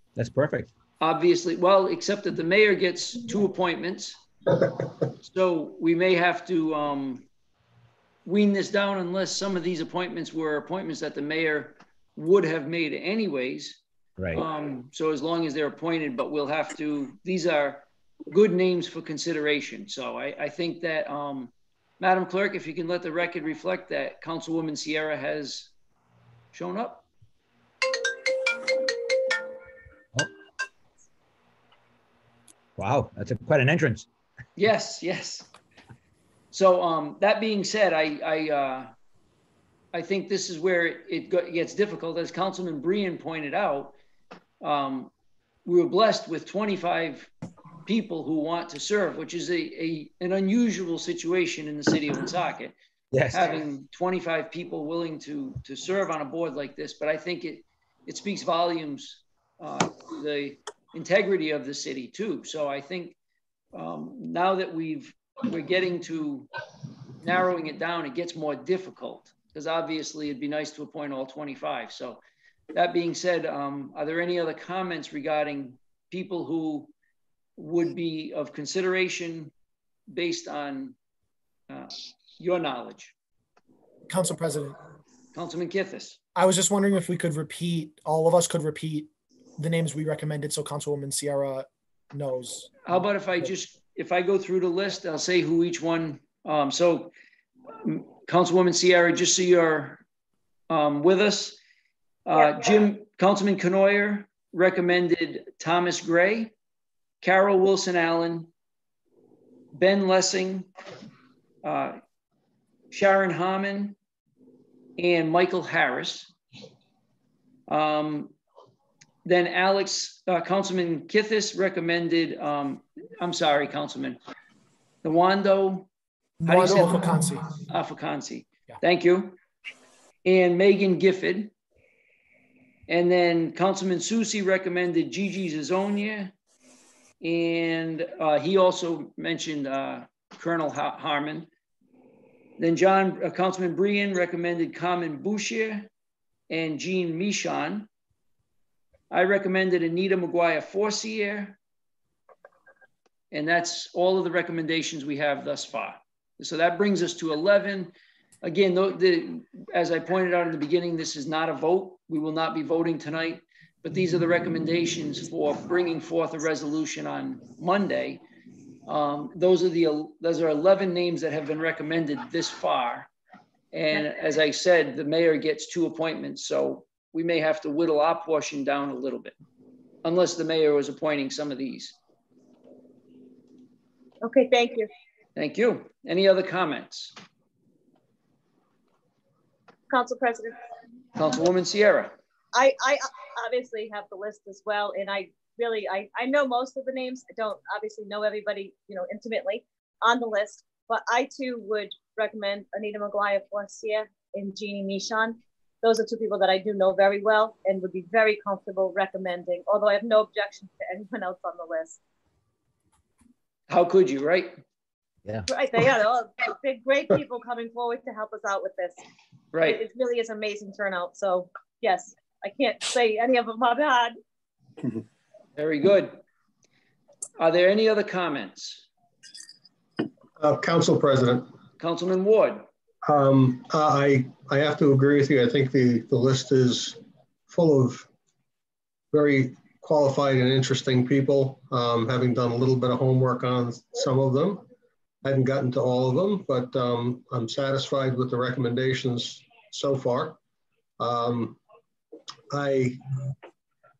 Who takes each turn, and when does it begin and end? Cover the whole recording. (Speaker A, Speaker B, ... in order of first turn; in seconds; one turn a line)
Speaker A: 0.1-0.7
Speaker B: 1.0-4.2
Speaker B: 5.2-7.3
Speaker B: 8.2-13.8
Speaker A: 14.2-14.4
Speaker B: 14.3-25.7
Speaker B: 26.5-27.1
Speaker A: 32.8-34.1
Speaker B: 34.5-35.5
Speaker B: 36.5-38.9
Speaker B: 39.9-43.9
Speaker B: 44.6-45.1
Speaker B: 45.6-47.3
Speaker B: 47.8-52.7
Speaker A: 53.1-53.5
Speaker B: 53.3-63.1
Speaker B: 63.7-66.5
Speaker B: 67.2-72.2
Speaker B: 72.7-76.9
Speaker B: 77.6-79.5
Speaker B: 80.1-81.0
Speaker B: 81.7-83.1
Speaker C: 84.1-84.7
Speaker B: 85.3-86.2
Speaker C: 86.3-92.9
Speaker B: 92.8-97.1
Speaker B: 97.8-100.0
Speaker B: 100.7-101.6
Speaker B: 102.2-106.5
Speaker B: 107.2-108.5
Speaker B: 109.7-110.7
Speaker B: 111.6-112.0
Speaker B: 112.9-114.0
Speaker B: 115.0-116.3
Speaker B: 117.7-118.3
Speaker B: 119.2-124.2
Speaker B: 125.0-125.9
Speaker C: 126.4-127.5
Speaker B: 126.5-129.4
Speaker B: 130.2-131.5
Speaker B: 132.9-136.3
Speaker B: 137.2-141.5
Speaker B: 142.6-145.9
Speaker B: 146.5-147.9
Speaker B: 149.1-151.6
Speaker B: 153.3-168.2
Speaker B: 168.9-173.1
Speaker B: 173.7-179.3
Speaker B: 180.0-181.9
Speaker D: 184.2-184.9
Speaker B: 185.3-187.1
Speaker D: 189.9-190.6
Speaker B: 191.2-192.1
Speaker D: 192.5-212.0
Speaker B: 213.7-214.6
Speaker D: 215.5-219.0
Speaker B: 219.5-219.8
Speaker D: 219.6-224.2
Speaker B: 225.6-226.2
Speaker B: 227.4-228.8
Speaker E: 230.4-231.5
Speaker B: 231.8-232.7
Speaker E: 233.0-238.1
Speaker E: 239.1-244.6
Speaker E: 245.2-250.4
Speaker E: 251.0-251.6
Speaker E: 252.5-253.0